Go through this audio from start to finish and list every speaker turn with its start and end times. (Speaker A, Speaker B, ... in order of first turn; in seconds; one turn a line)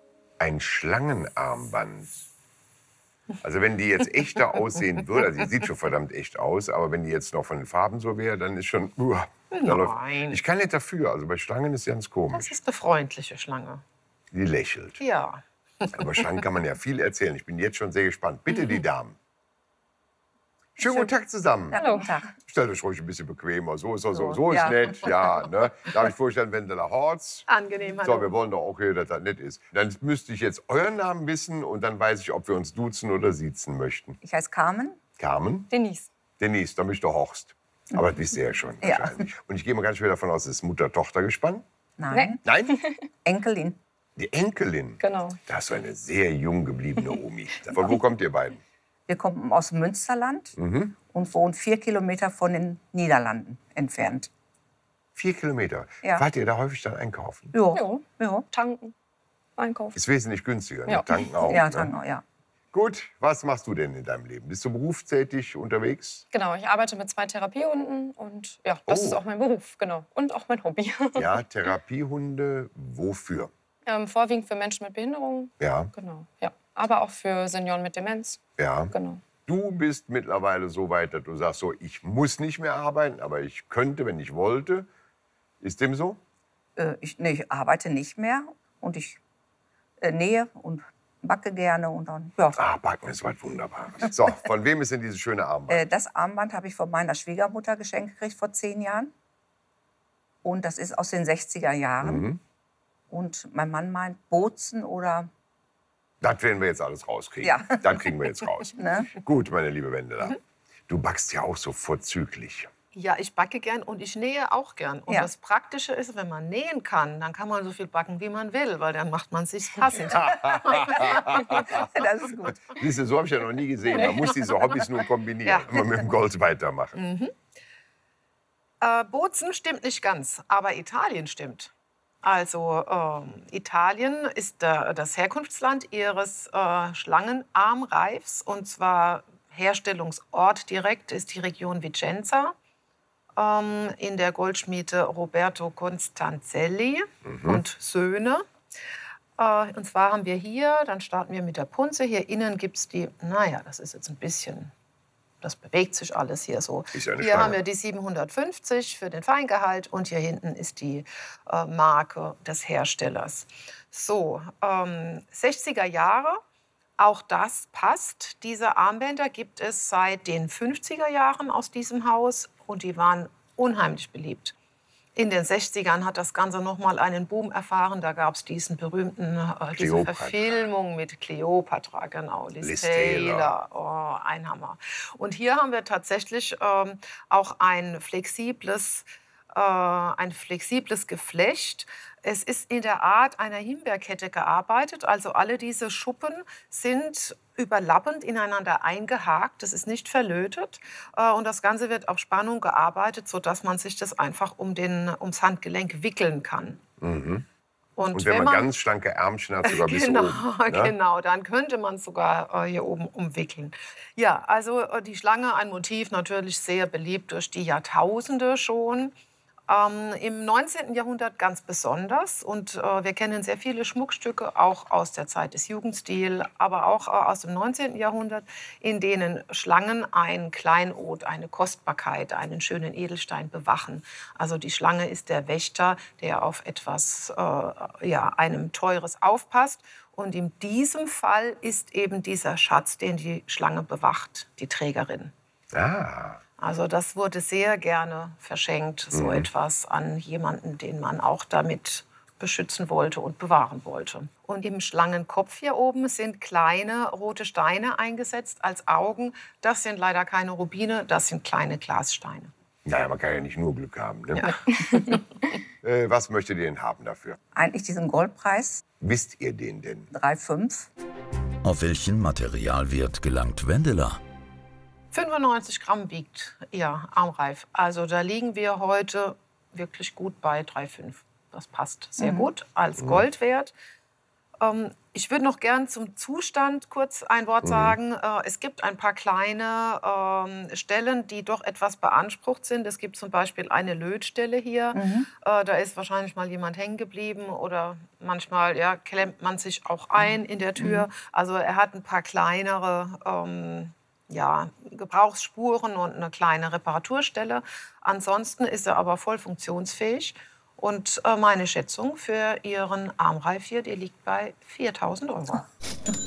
Speaker A: 0.4-2.1
Speaker A: 3.4-12.6
Speaker B: 9.5-10.4
Speaker B: 12.3-13.8
Speaker A: 14.3-15.1
Speaker B: 15.0-16.2
Speaker A: 15.9-19.2
Speaker A: 20.8-21.8
Speaker C: 20.8-21.1
Speaker C: 21.7-22.3
Speaker D: 21.7-22.1
Speaker A: 22.4-34.2
Speaker C: 24.1-25.2
Speaker B: 27.5-28.3
Speaker C: 34.2-35.0
Speaker A: 35.2-35.7
Speaker D: 35.7-36.1
Speaker A: 36.4-41.6
Speaker C: 38.8-39.3
Speaker C: 42.0-42.5
Speaker D: 42.1-43.0
Speaker A: 42.4-42.7
Speaker C: 43.2-43.8
Speaker A: 44.2-48.6
Speaker D: 45.0-45.4
Speaker C: 49.1-54.3
Speaker A: 50.6-50.9
Speaker A: 55.2-57.5
Speaker C: 57.5-58.5
Speaker D: 57.7-58.9
Speaker D: 59.6-60.0
Speaker A: 60.0-61.9
Speaker D: 60.9-61.5
Speaker C: 61.5-62.2
Speaker A: 62.7-66.2
Speaker D: 66.3-71.3
Speaker A: 68.9-69.2
Speaker A: 71.2-73.5
Speaker D: 73.8-78.4
Speaker A: 75.6-75.9
Speaker A: 78.6-78.9
Speaker D: 78.9-79.2
Speaker A: 79.4-84.9
Speaker A: 85.6-86.2
Speaker C: 86.8-89.2
Speaker C: 90.0-92.6
Speaker A: 92.5-95.9
Speaker C: 95.7-99.1
Speaker C: 100.4-102.3
Speaker A: 102.0-102.4
Speaker C: 103.1-105.3
Speaker A: 106.2-110.4
Speaker C: 107.4-108.0
Speaker C: 108.7-109.1
Speaker A: 110.9-112.7
Speaker B: 112.9-121.6
Speaker C: 120.1-121.0
Speaker A: 120.1-121.8
Speaker C: 121.7-122.6
Speaker A: 122.7-127.0
Speaker B: 123.9-124.7
Speaker B: 125.4-125.9
Speaker B: 126.9-127.3
Speaker B: 128.8-131.7
Speaker B: 132.2-142.5
Speaker B: 143.3-148.4
Speaker A: 147.3-147.6
Speaker B: 149.4-154.7
Speaker B: 155.4-166.4
Speaker A: 156.9-157.6
Speaker B: 167.0-174.5
Speaker B: 175.2-206.8
Speaker A: 179.7-180.7
Speaker A: 182.6-183.6
Speaker A: 207.0-207.4
Speaker B: 207.9-208.7
Speaker A: 208.1-210.9
Speaker B: 209.6-219.1
Speaker B: 219.7-245.3
Speaker A: 245.7-246.4
Speaker B: 246.6-262.5
Speaker A: 249.1-249.5
Speaker A: 262.9-264.5
Speaker A: 265.8-267.4
Speaker C: 267.6-268.8
Speaker A: 269.0-270.1
Speaker C: 270.1-270.9
Speaker E: 271.6-274.2
Speaker B: 275.1-283.7
Speaker C: 282.2-282.5
Speaker A: 283.0-283.3
Speaker B: 284.6-315.6
Speaker A: 287.6-288.0
Speaker C: 294.9-295.3
Speaker C: 300.8-301.1